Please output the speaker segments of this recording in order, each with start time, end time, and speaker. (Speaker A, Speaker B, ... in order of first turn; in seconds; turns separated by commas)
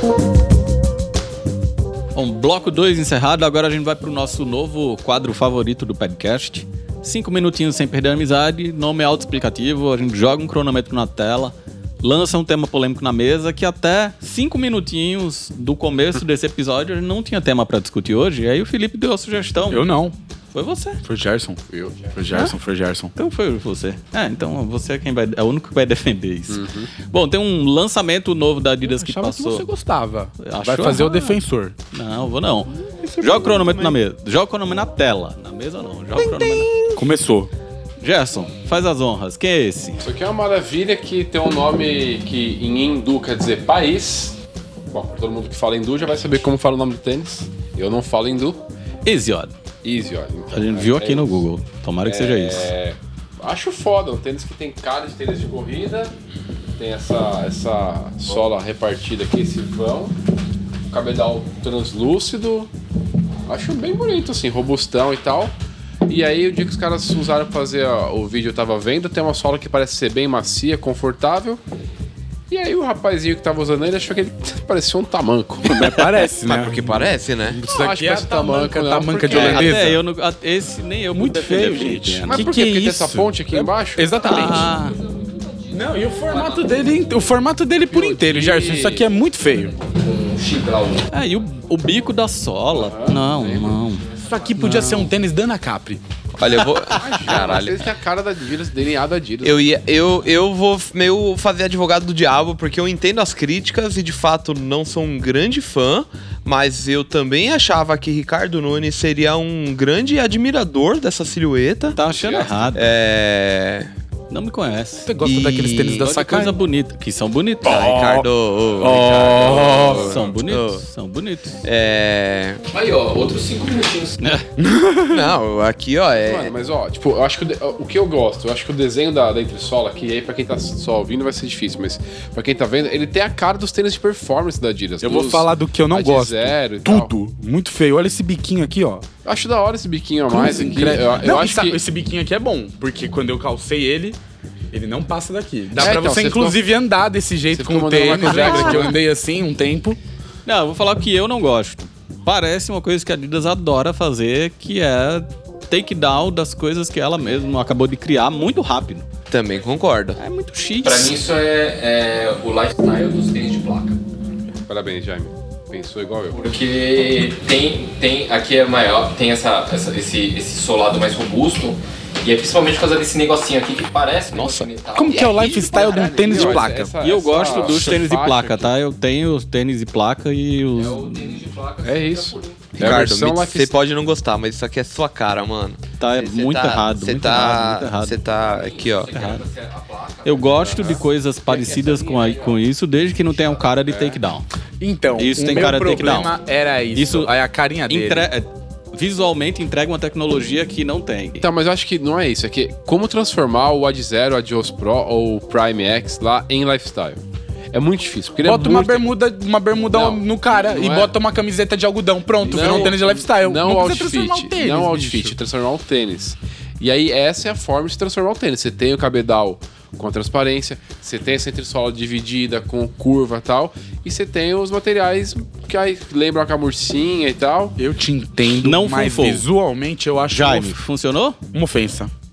Speaker A: 2.1-19.9, Speaker B: 19.7-20.1, Speaker A: 20.5-21.0, Speaker B: 21.0-21.6, Speaker C: 21.7-22.1, Speaker B: 22.1-23.1, Speaker A: 23.1-29.7, Speaker C: 26.5-26.9, Speaker B: 28.9-31.8, Speaker A: 30.4-31.4, Speaker A: 31.9-36.7, Speaker D: 32.7-34.0, Speaker D: 36.1-37.0, Speaker B: 37.0-37.5, Speaker A: 38.0-40.1, Speaker C: 40.0-44.4, Speaker C: 44.9-48.6, Speaker A: 49.0-49.5, Speaker C: 49.8-51.5, Speaker A: 50.5-52.7, Speaker C: 52.0-56.1, Speaker C: 56.8-60.2, Speaker C: 60.9-62.7, Speaker C: 63.5-65.5, Speaker C: 66.1-71.6, Speaker C: 72.5-75.9, Speaker B: 75.7-77.0, Speaker D: 76.4-77.6, Speaker B: 77.5-80.0, Speaker C: 77.7-79.8, Speaker A: 79.3-82.5, Speaker B: 81.1-84.7, Speaker C: 82.3-84.6, Speaker A: 84.2-85.0, Speaker E: 84.7-87.2, Speaker B: 85.7-89.8, Speaker C: 87.9-89.1, Speaker E: 89.5-91.1, Speaker A: 91.1-94.0, Speaker C: 92.7-93.8, Speaker E: 94.0-94.9, Speaker B: 94.3-96.0, Speaker A: 94.6-95.1, Speaker D: 96.4-97.8, Speaker A: 97.0-97.2, Speaker C: 97.0-99.6, Speaker D: 99.4-112.0, Speaker A: 112.0-112.9, Speaker C: 112.0-112.8, Speaker D: 112.7-113.9, Speaker A: 114.3-115.1, Speaker B: 115.1-116.6, Speaker D: 115.2-116.1, Speaker A: 116.0-117.8, Speaker D: 117.6-120.8, Speaker B: 117.7-118.3, Speaker B: 118.8-120.1, Speaker C: 118.8-120.4, Speaker A: 119.8-121.6, Speaker D: 121.6-122.6, Speaker E: 122.7-124.2, Speaker A: 124.2-124.5, Speaker B: 124.6-125.3, Speaker D: 125.1-126.5, Speaker C: 126.2-137.1, Speaker B: 135.0-139.1, Speaker C: 139.2-141.8, Speaker B: 140.3-144.2, Speaker B: 144.7-150.0, Speaker C: 145.8-146.7, Speaker C: 147.5-149.0, Speaker A: 148.2-148.9, Speaker A: 150.5-159.1, Speaker D: 159.3-160.2, Speaker A: 160.2-161.1, Speaker E: 160.8-164.0, Speaker C: 164.7-166.4, Speaker E: 166.3-175.9, Speaker D: 174.3-174.7, Speaker B: 174.9-176.9, Speaker C: 175.2-178.8, Speaker A: 176.4-181.4, Speaker E: 180.8-183.0, Speaker C: 181.8-183.7, Speaker D: 182.8-189.1, Speaker A: 186.0-188.2, Speaker E: 188.3-192.6, Speaker A: 189.1-189.4, Speaker A: 190.2-194.5, Speaker C: 190.6-191.0, Speaker E: 193.2-193.8, Speaker C: 193.9-194.2, Speaker B: 194.8-198.3, Speaker A: 195.2-196.4, Speaker A: 196.9-197.3, Speaker A: 197.9-201.4, Speaker C: 201.4-207.2, Speaker C: 207.7-209.2, Speaker B: 208.4-215.3, Speaker C: 209.9-211.2, Speaker C: 212.4-227.8, Speaker D: 212.6-212.9, Speaker B: 227.8-230.8, Speaker A: 228.6-229.5, Speaker A: 230.3-231.4, Speaker B: 231.5-232.1